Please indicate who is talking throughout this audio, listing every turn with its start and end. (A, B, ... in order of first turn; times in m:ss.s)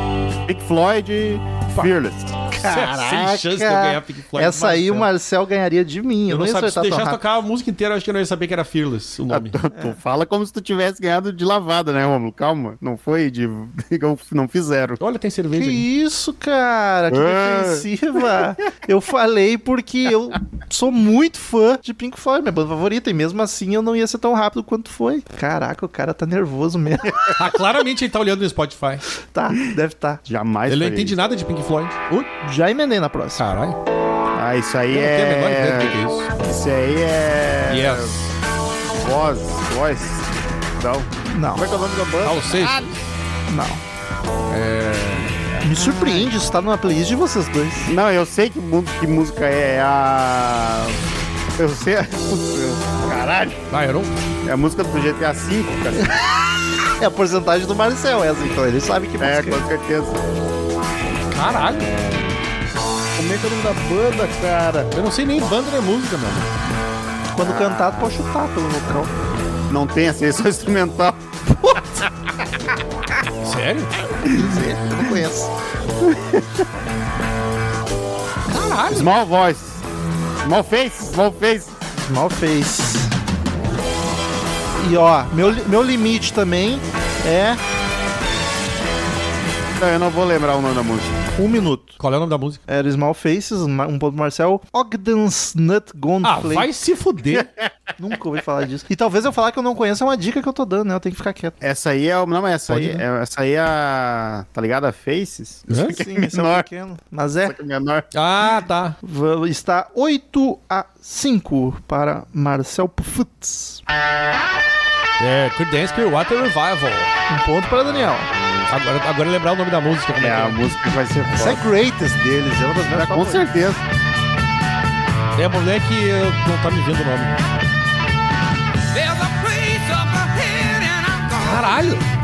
0:00.4-0:02.4 A
0:02.6-0:05.1 B
0:02.6-0:07.2 C
0:06.3-0:09.6 B
0:09.3-0:15.0 A
0:15.0-0:15.9 B
0:15.6-0:27.3 C
0:17.1-0:17.9 A
0:27.3-0:29.0 B
0:29.3-0:30.2 C
0:30.3-0:31.2 A
0:30.7-0:32.3 B
0:32.4-0:33.4 C
0:33.4-0:33.8 B
0:34.3-0:38.2 A
0:34.9-0:36.3 B
0:37.7-0:38.2 B
0:39.0-0:42.9 A
0:41.3-0:41.6 C
0:42.2-0:43.0 B
0:43.5-0:43.8 C
0:44.5-0:45.3 B
0:45.6-0:47.9 C
0:47.8-0:51.0 A
0:51.6-0:53.6 A
0:53.7-0:54.1 B
0:54.4-0:56.1 A
0:57.0-0:59.6 C
0:59.2-1:00.2 A
1:01.3-1:01.9 B
1:03.1-1:04.9 A
1:04.9-1:06.5 B
1:07.3-1:09.1 C
1:07.4-1:08.1 A
1:09.7-1:11.2 A
1:13.4-1:13.9 B
1:14.2-1:15.5 C
1:14.3-1:14.7 A
1:16.0-1:16.6 A
1:18.5-1:19.1 B
1:18.9-1:19.8 A
1:20.4-1:21.7 A
1:22.0-1:23.1 C
1:24.8-1:27.6 C
1:29.8-1:31.3 A
1:31.4-1:32.0 C
1:32.0-1:32.6 B
1:32.7-1:36.7 C
1:36.2-1:37.5 B
1:37.3-1:37.7 A
1:38.0-1:41.6 C
1:41.6-1:46.7 A
1:42.7-1:43.0 C
1:45.7-1:46.0 B
1:45.8-1:47.6 C
1:47.4-1:48.0 A
1:48.1-1:49.0 B
1:49.0-1:53.8 C
1:55.2-1:57.1 B
1:57.3-1:58.3 C
1:58.7-2:00.6 B
2:00.2-2:01.6 A
2:01.4-2:03.5 C
2:02.9-2:03.8 A
2:05.4-2:07.3 B
2:08.9-2:11.7 D
2:11.4-2:12.0 B